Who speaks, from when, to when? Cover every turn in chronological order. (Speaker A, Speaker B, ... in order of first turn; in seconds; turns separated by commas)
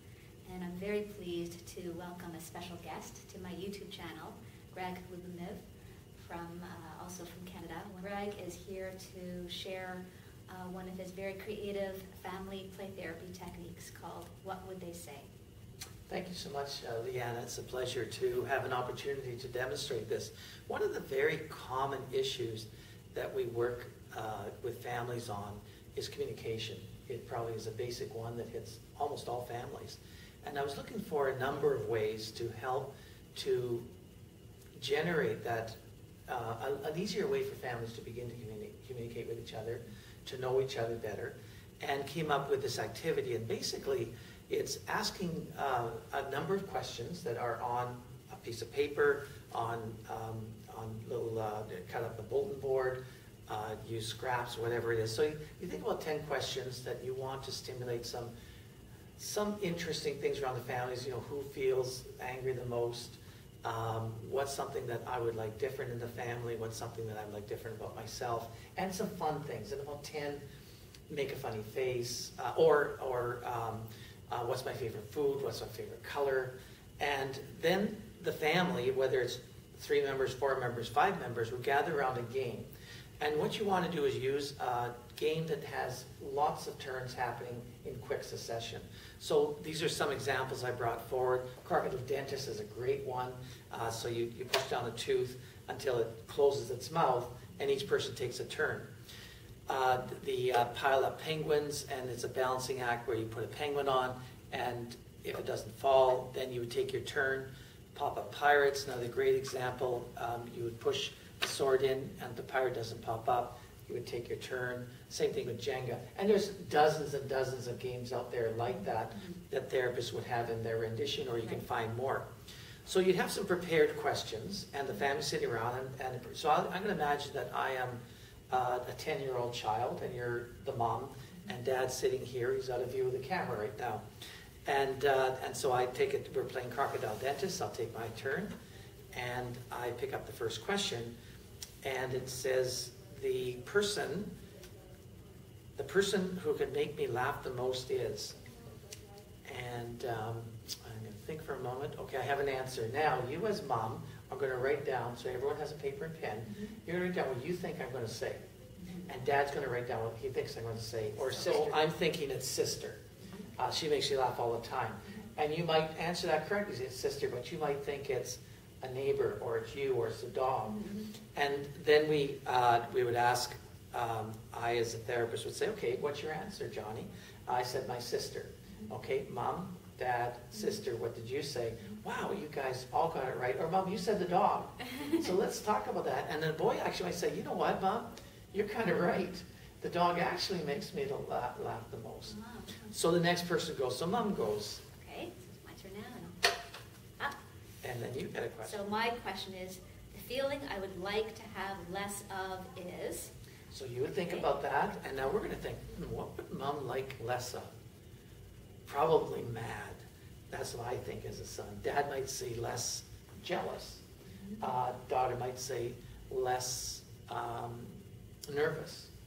Speaker A: 0.5-5.7, Speaker A: 6.2-15.3, Speaker B: 16.1-33.9, Speaker B: 34.8-35.7, Speaker B: 36.3-58.3, Speaker B: 59.2-70.4, Speaker B: 71.1-82.7, Speaker B: 83.2-98.9, Speaker B: 99.7-122.3, Speaker B: 122.9-134.0, Speaker B: 134.7-138.5, Speaker B: 139.1-141.1, Speaker B: 141.8-144.3, Speaker B: 145.8-148.4, Speaker B: 149.4-158.4, Speaker B: 159.1-163.0, Speaker A: 161.3-161.7, Speaker B: 163.6-170.8, Speaker A: 170.8-171.1, Speaker B: 171.3-192.3, Speaker A: 192.3-192.9, Speaker B: 192.9-194.8, Speaker A: 194.9-196.4, Speaker B: 197.8-198.9, Speaker A: 198.6-203.3, Speaker B: 203.7-207.7, Speaker B: 208.9-214.0, Speaker B: 214.6-217.9, Speaker B: 218.5-219.1